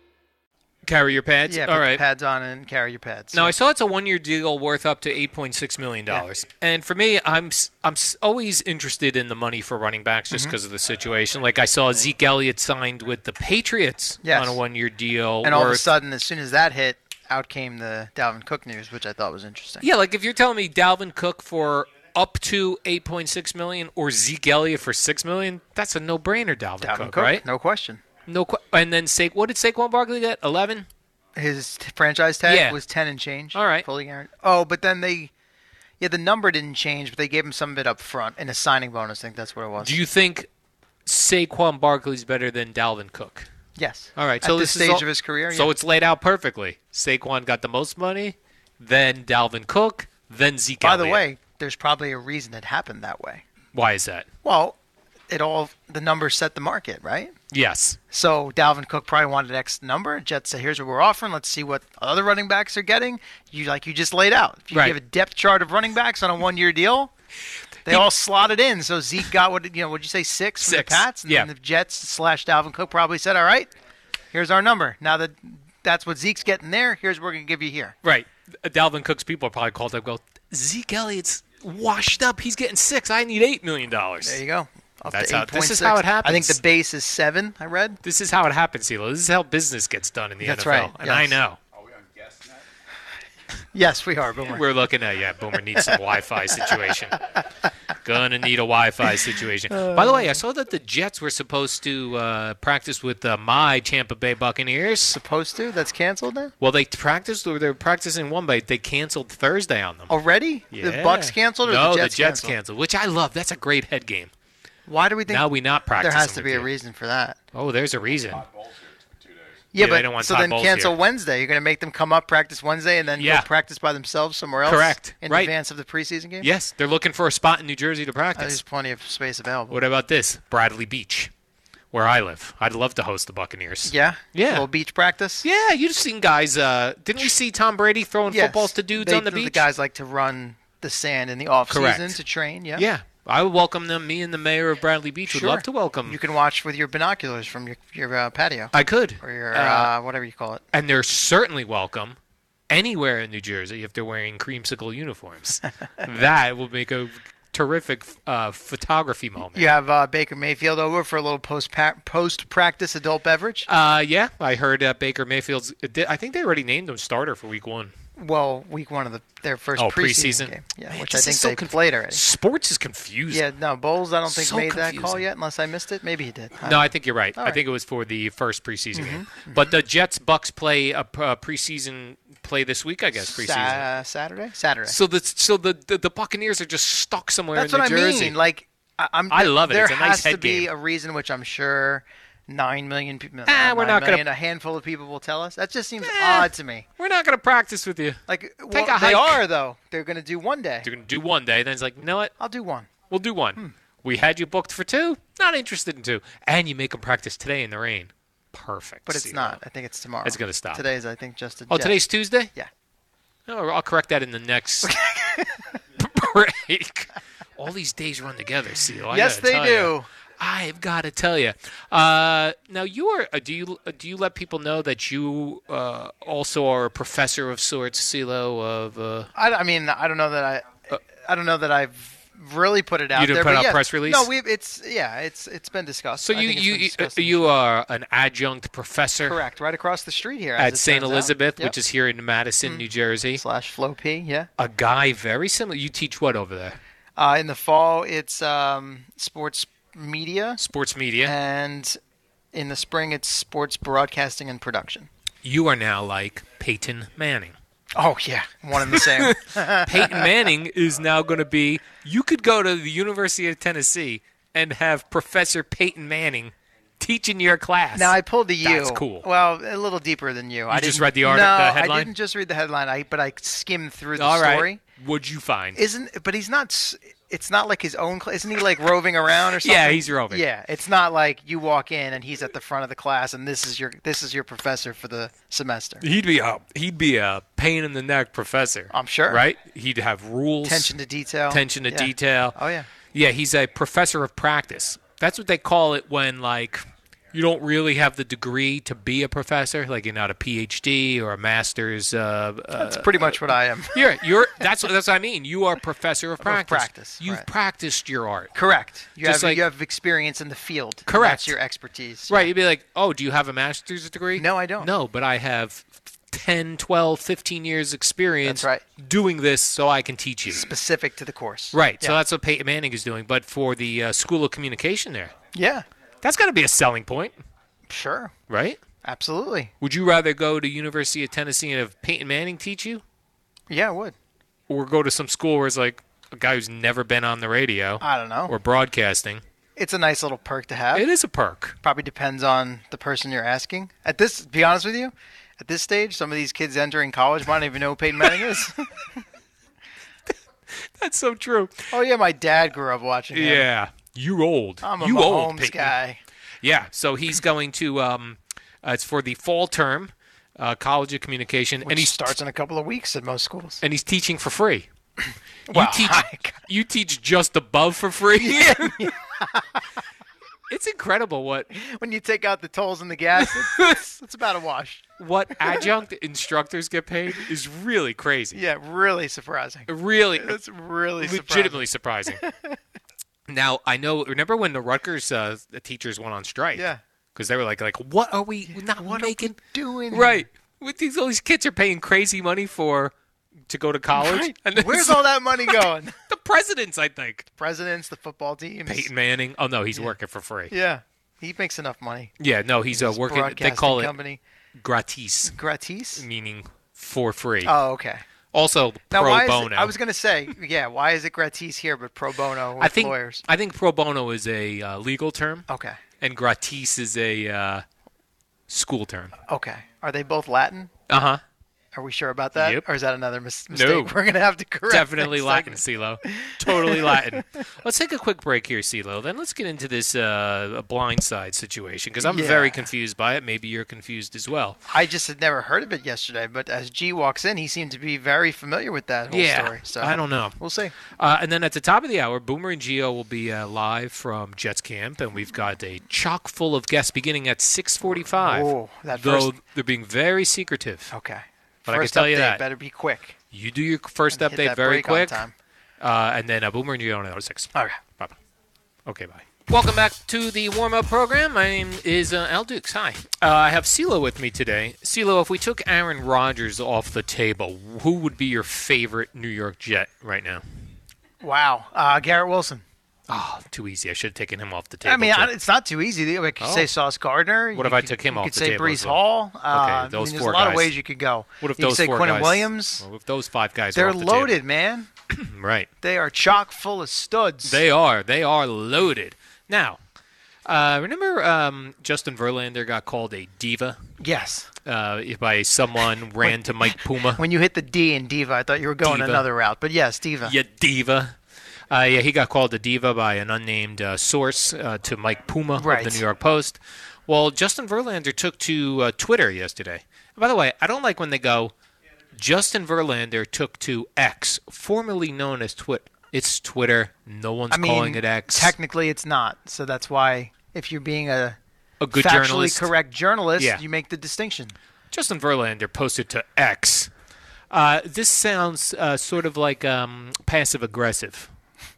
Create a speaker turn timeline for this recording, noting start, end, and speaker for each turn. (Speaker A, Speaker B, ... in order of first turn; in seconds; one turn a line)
Speaker A: 0.8-2.0
Speaker B: 1.5-3.5
Speaker A: 3.3-15.9
Speaker B: 14.2-14.6
Speaker B: 15.4-19.8
Speaker A: 19.8-27.4
Speaker B: 26.8-28.0
Speaker A: 28.2-30.9
Speaker B: 31.4-35.3
Speaker A: 32.5-32.8
Speaker A: 33.5-33.9
Speaker B: 36.0-40.0
Speaker A: 39.8-40.5
Speaker A: 41.0-43.5
Speaker B: 43.8-45.7
Speaker A: 44.1-51.2
Speaker B: 50.8-53.4
Speaker A: 53.7-54.3
Speaker B: 54.4-54.8
Speaker B: 55.3-57.3
Speaker A: 57.5-58.0
Speaker B: 58.1-67.1
Speaker A: 64.7-65.0
Speaker B: 67.8-73.7
Speaker A: 70.6-71.5
Speaker B: 74.3-77.9
Speaker A: 78.0-84.4
Speaker B: 84.2-88.0
Speaker A: 85.1-86.6
Speaker A: 88.0-91.6
Speaker B: 90.4-91.4
Speaker B: 93.7-94.6
Speaker A: 94.5-97.2
Speaker A: 98.0-105.2
Speaker B: 99.7-100.3
Speaker B: 105.1-106.5
Speaker A: 106.6-110.1
Speaker B: 110.1-112.5
Speaker A: 110.7-114.3
Speaker B: 114.9-117.4
Speaker A: 115.3-116.7
Speaker A: 117.5-118.5
Speaker B: 119.7-126.5
Speaker A: 119.8-120.9
Speaker A: 123.2-123.5
Speaker A: 124.6-125.5
Speaker A: 126.4-128.6
Speaker B: 128.4-129.8
Speaker A: 129.7-131.3
Speaker A: 131.9-134.7
Speaker B: 133.8-135.4
Speaker A: 135.4-139.6
Speaker B: 138.3-142.9
Speaker A: 141.7-142.2
Speaker A: 142.7-146.2
Speaker B: 145.3-150.6
Speaker A: 148.7-149.9
Speaker A: 150.7-152.2
Speaker A: 152.7-159.7
Speaker B: 159.5-163.7
Speaker A: 163.7-167.9
Speaker B: 168.2-172.2
Speaker A: 169.8-173.4
Speaker B: 173.3-177.6
Speaker A: 174.3-175.2
Speaker A: 176.6-183.8
Speaker B: 178.9-179.7
Speaker B: 183.2-184.9
Speaker A: 184.9-188.3
Speaker B: 187.5-196.8
Speaker A: 189.3-190.7
Speaker A: 193.4-194.2
Speaker A: 196.0-198.2
Speaker B: 198.3-200.9
Speaker A: 198.7-199.4
Speaker A: 200.8-202.3
Speaker B: 202.4-202.9
Speaker A: 203.1-209.6
Speaker B: 209.1-212.0
Speaker A: 210.2-210.8
Speaker A: 211.7-212.5
Speaker A: 213.5-214.9
Speaker B: 214.8-215.6
Speaker A: 216.0-229.3
Speaker B: 219.1-220.1
Speaker B: 229.3-237.4
Speaker A: 233.1-234.3
Speaker A: 236.2-239.4
Speaker B: 239.2-241.7
Speaker A: 240.6-243.4
Speaker B: 242.6-244.5
Speaker A: 244.6-246.8
Speaker B: 247.2-250.6
Speaker A: 250.6-251.3
Speaker B: 251.2-252.0
Speaker B: 252.5-255.1
Speaker A: 255.4-257.5
Speaker B: 257.9-260.3
Speaker A: 258.8-269.2
Speaker B: 267.9-274.8
Speaker A: 270.7-272.1
Speaker A: 274.1-275.8
Speaker B: 275.8-286.0
Speaker A: 279.6-280.4
Speaker A: 286.0-290.9
Speaker B: 288.9-289.4
Speaker B: 290.6-292.9
Speaker A: 291.5-292.6
Speaker A: 293.1-308.5
Speaker B: 302.8-304.0
Speaker B: 306.4-307.4
Speaker B: 308.5-312.5
Speaker A: 309.2-309.6
Speaker A: 311.1-311.5
Speaker A: 312.3-320.7
Speaker B: 314.4-314.9
Speaker B: 318.4-318.8
Speaker B: 320.5-322.1
Speaker A: 321.7-325.3
Speaker B: 325.5-325.8
Speaker A: 326.2-327.3
Speaker B: 327.9-328.3
Speaker A: 328.5-328.8
Speaker B: 329.0-329.7
Speaker A: 329.8-333.0
Speaker B: 333.7-334.1
Speaker A: 334.7-339.4
Speaker B: 338.0-338.5
Speaker B: 339.8-341.1
Speaker A: 340.9-341.8
Speaker B: 341.8-348.9
Speaker A: 350.7-351.9
Speaker B: 351.9-353.7
Speaker A: 353.3-355.9
Speaker B: 354.8-356.2
Speaker A: 356.6-362.3
Speaker B: 361.8-363.8
Speaker A: 363.8-364.9
Speaker B: 365.7-366.6
Speaker A: 365.7-369.1
Speaker B: 368.3-369.8
Speaker A: 370.7-371.7
Speaker B: 371.7-375.0
Speaker A: 373.4-373.9
Speaker A: 375.2-378.6
Speaker B: 378.5-382.8
Speaker A: 379.9-380.6
Speaker A: 381.2-382.4
Speaker A: 383.5-389.6
Speaker B: 386.7-387.0
Speaker B: 388.7-390.4
Speaker A: 390.1-393.1
Speaker A: 393.7-397.5
Speaker B: 394.1-396.1
Speaker B: 397.6-399.1
Speaker A: 398.9-400.7
Speaker B: 400.7-402.3
Speaker A: 402.4-404.1
Speaker B: 402.9-404.4
Speaker A: 404.8-405.5
Speaker B: 405.5-406.2
Speaker A: 406.1-407.7
Speaker B: 407.6-408.2
Speaker A: 408.5-409.9
Speaker B: 409.1-413.4
Speaker A: 412.8-415.6
Speaker B: 415.7-416.0
Speaker A: 416.2-417.8
Speaker A: 418.7-419.3
Speaker B: 419.5-420.9
Speaker A: 421.1-421.4
Speaker B: 421.9-427.4
Speaker A: 422.6-422.8
Speaker A: 423.7-424.1
Speaker A: 424.9-434.8
Speaker B: 432.2-432.8
Speaker B: 434.9-440.9
Speaker A: 439.3-440.6
Speaker A: 441.1-451.1
Speaker B: 448.3-449.5
Speaker B: 451.1-453.4
Speaker A: 451.9-452.6
Speaker A: 453.5-455.4
Speaker B: 454.3-455.5
Speaker A: 456.0-458.3
Speaker A: 459.1-470.6
Speaker B: 471.4-472.8
Speaker A: 473.3-475.5
Speaker B: 475.0-483.0
Speaker A: 476.6-476.9
Speaker A: 477.7-480.9
Speaker A: 481.6-484.6
Speaker B: 483.9-485.1
Speaker A: 485.3-485.9
Speaker B: 486.0-487.8
Speaker A: 487.6-490.0
Speaker A: 490.6-494.0
Speaker B: 494.2-494.7
Speaker A: 494.8-497.4
Speaker B: 497.4-500.5
Speaker A: 499.0-499.4
Speaker A: 500.4-501.3
Speaker A: 501.9-511.7
Speaker B: 505.8-506.2
Speaker A: 512.4-518.7
Speaker B: 517.7-521.6
Speaker A: 522.0-522.9
Speaker B: 522.1-524.7
Speaker A: 525.1-527.1
Speaker A: 527.7-531.5